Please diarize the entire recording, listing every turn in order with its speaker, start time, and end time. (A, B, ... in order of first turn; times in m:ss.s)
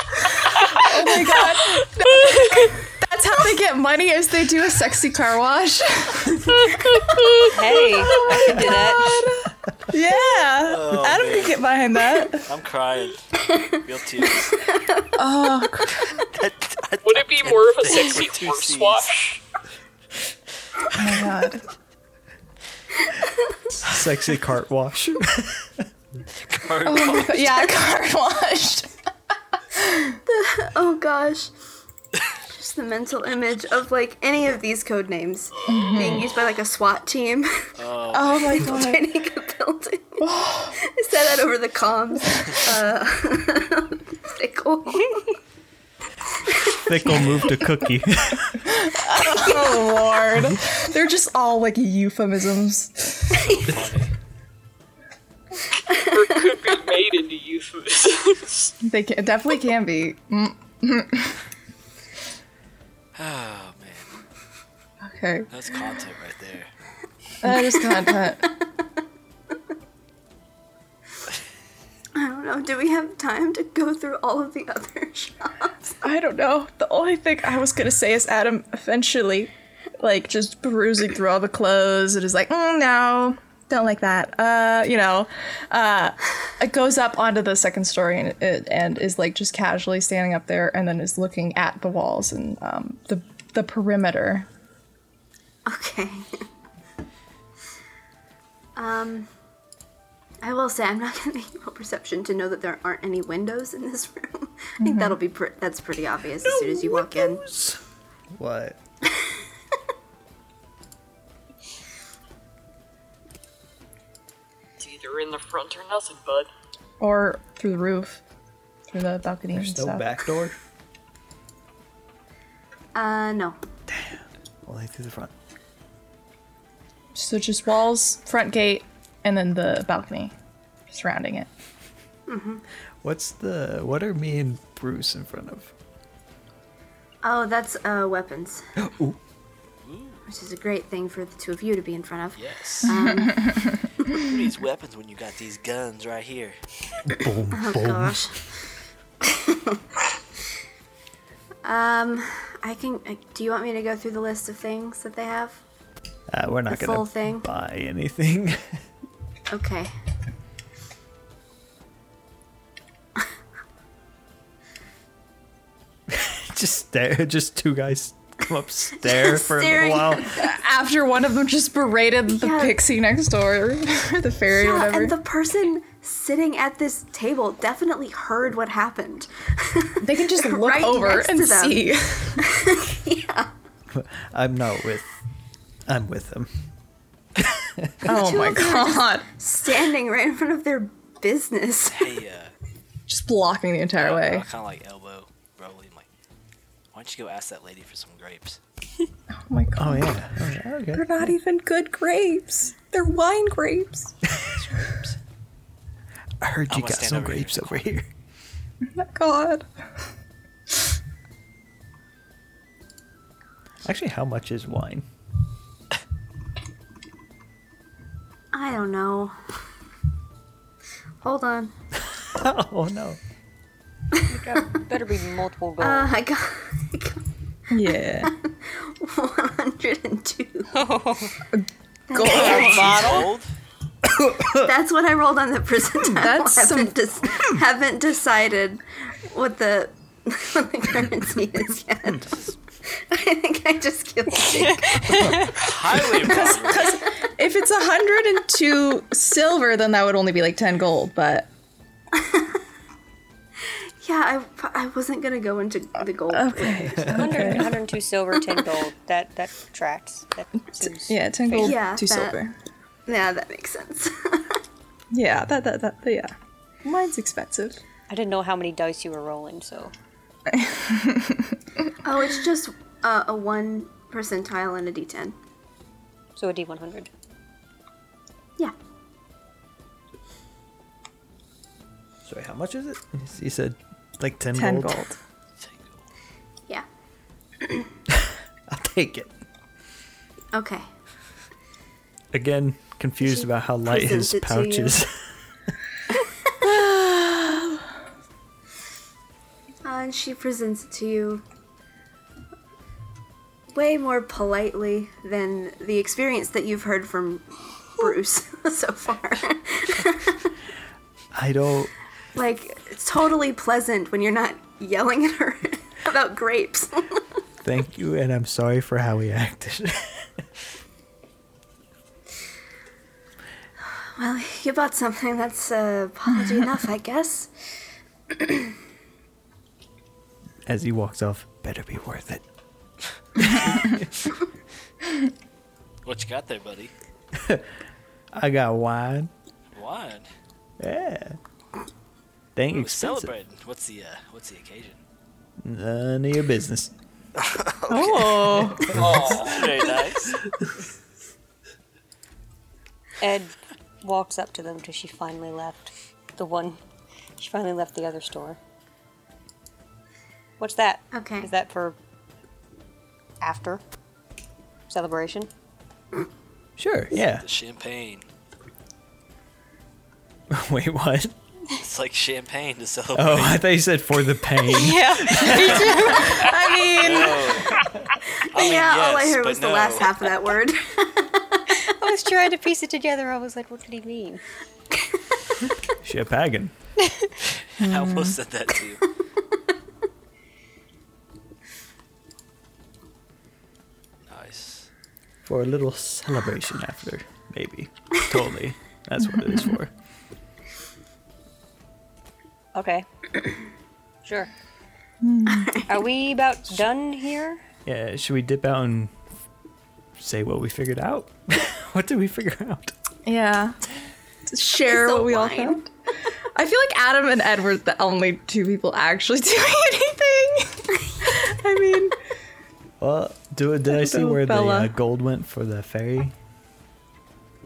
0:00.6-0:02.7 A
0:00.8-0:06.4 B
0:06.6-0:07.5 A
0:07.5-0:09.2 C
0:08.0-0:12.5 B
0:10.6-0:11.7 D
0:12.4-0:14.6 D
0:14.3-0:15.1 E
0:15.2-0:16.1 B
0:16.4-0:17.6 F
0:17.0-0:19.4 A
0:17.2-0:19.1 D
0:21.0-0:21.6 B
0:23.9-0:25.8 F
0:26.5-0:27.8 D
0:26.8-0:28.9 B
0:29.7-0:30.2 B
0:30.3-0:31.5 E
0:32.5-0:37.7 E
0:35.7-0:36.3 B
0:37.8-0:38.8 D
0:38.1-0:39.0 B
0:38.6-0:45.4 E
0:40.2-0:40.8 B
0:46.9-0:48.7 F
0:48.6-0:53.5 B
0:49.5-0:49.9 E
0:53.6-0:54.1 D
0:55.9-0:56.2 E
0:56.0-0:58.7 A
0:58.8-1:01.4 B
1:03.2-1:04.1 D
1:05.0-1:05.5 B
1:05.5-1:06.7 D
1:07.4-1:08.4 B
1:07.4-1:08.5 E
1:12.2-1:15.8 E
1:16.0-1:34.5 B
1:35.7-1:36.4 E
1:38.8-1:39.3 E
1:40.4-1:47.4 E
1:44.8-1:45.2 B
1:46.4-1:47.8 F
1:48.3-1:48.8 F
1:54.8-1:56.5 A
1:57.0-1:58.2 B
1:58.9-2:00.0 B
1:59.5-2:00.6 F
2:03.0-2:03.6 E
2:03.9-2:05.3 F
2:07.2-2:10.3 B
2:10.9-2:11.5 B
2:12.3-2:12.6 E
2:13.0-2:15.7 F
2:17.2-2:18.7 E
2:18.8-2:19.2 F
2:19.8-2:20.2 D
2:20.3-2:23.7 E
2:22.4-2:23.0 D
2:22.9-2:23.8 B
2:24.2-2:26.6 D
2:27.2-2:28.2 F
2:27.5-2:28.7 E
2:29.2-2:29.8 E
2:31.6-2:35.6 E
2:36.3-2:38.8 F
2:36.7-2:37.5 E
2:39.5-2:39.9 E
2:46.1-2:50.3 F
2:49.0-2:50.5 E
2:50.4-2:55.2 B
2:52.3-2:52.8 E
2:54.5-3:03.5 E
3:00.0-3:02.4 B
3:03.9-3:05.1 F
3:05.9-3:06.7 F
3:07.4-3:08.1 F
3:08.0-3:09.3 B
3:08.1-3:12.2 E
3:11.9-3:12.5 D
3:13.1-3:14.4 B
3:14.0-3:16.1 D
3:16.9-3:18.6 D
3:19.4-3:20.1 B
3:19.8-3:21.1 F
3:20.9-3:24.1 B
3:26.4-3:28.1 F
3:26.7-3:27.9 D
3:28.9-3:29.9 B
3:33.8-3:35.1 F
3:38.5-3:39.4 E
3:41.2-3:41.7 E
3:42.3-3:43.2 F
3:44.3-3:46.1 C
3:45.8-3:47.2 E
3:47.7-3:48.3 B
3:48.2-3:50.7 E
3:50.7-3:51.4 C
3:51.5-3:53.2 B
3:52.1-3:53.1 E
3:52.2-3:53.2 C
3:52.3-3:53.5 D
3:54.1-3:54.7 F
3:54.6-4:02.3 E
3:56.1-3:56.9 B
3:57.2-3:57.5 D
4:02.9-4:05.4 E
4:05.6-4:07.0 D
4:06.1-4:11.5 B
4:12.1-4:12.6 E
4:13.6-4:17.6 E
4:16.3-4:17.7 B
4:17.1-4:21.8 C
4:20.9-4:22.6 B
4:21.6-4:22.4 E
4:23.1-4:24.6 E
4:25.1-4:27.8 B
4:28.1-4:29.9 C
4:30.5-4:31.6 B
4:32.0-4:35.4 E
4:36.4-4:37.1 C
4:42.2-4:45.0 F
4:44.6-4:45.2 B
4:45.6-4:46.0 D
4:47.6-4:47.9 E
4:48.7-4:49.3 F
4:50.5-4:50.9 E
4:52.3-4:55.3 F
4:53.2-4:55.0 E
4:56.7-4:57.8 B
4:59.8-5:01.4 E
5:03.7-5:10.5 E
5:11.3-5:11.9 F
5:12.4-5:17.2 E
5:17.6-5:20.5 F
5:24.2-5:27.5 E
5:28.3-5:28.7 E
5:30.7-5:32.4 F
5:33.4-5:34.0 F
5:36.0-5:36.9 D
5:37.4-5:37.7 F
5:38.3-5:39.3 F
5:39.8-5:40.3 D
5:40.8-5:41.4 F
5:42.6-5:43.3 F
5:42.7-5:45.0 D
5:45.6-5:46.9 F
5:47.4-5:50.4 D
5:47.9-5:48.9 B
5:49.0-5:49.8 A
5:49.0-5:49.2 F
5:53.2-5:56.8 C
5:57.4-5:58.6 C
6:00.6-6:02.0 C
6:01.1-6:01.5 E
6:03.4-6:03.8 C
6:04.9-6:05.5 C
6:06.8-6:07.4 F
6:07.1-6:08.3 D
6:10.5-6:11.4 F
6:11.8-6:13.6 D
6:13.1-6:15.9 F
6:14.7-6:16.3 C
6:15.4-6:17.9 D
6:16.0-6:17.6 B
6:18.5-6:20.3 D
6:18.5-6:21.6 E
6:22.0-6:24.4 C
6:26.0-6:26.7 F
6:27.8-6:29.0 D
6:27.8-6:28.4 B
6:34.3-6:34.9 D
6:35.5-6:39.9 F
6:42.8-6:43.1 C
6:44.2-6:44.5 C
6:45.2-6:45.7 B
6:45.5-6:45.8 E
6:45.9-6:47.6 C
6:47.9-6:49.2 F
6:50.2-6:52.9 F
6:53.3-6:53.8 B
6:54.5-6:55.8 B
6:54.6-6:55.8 E
6:56.6-7:02.2 B
7:03.0-7:06.4 F
7:03.9-7:04.9 B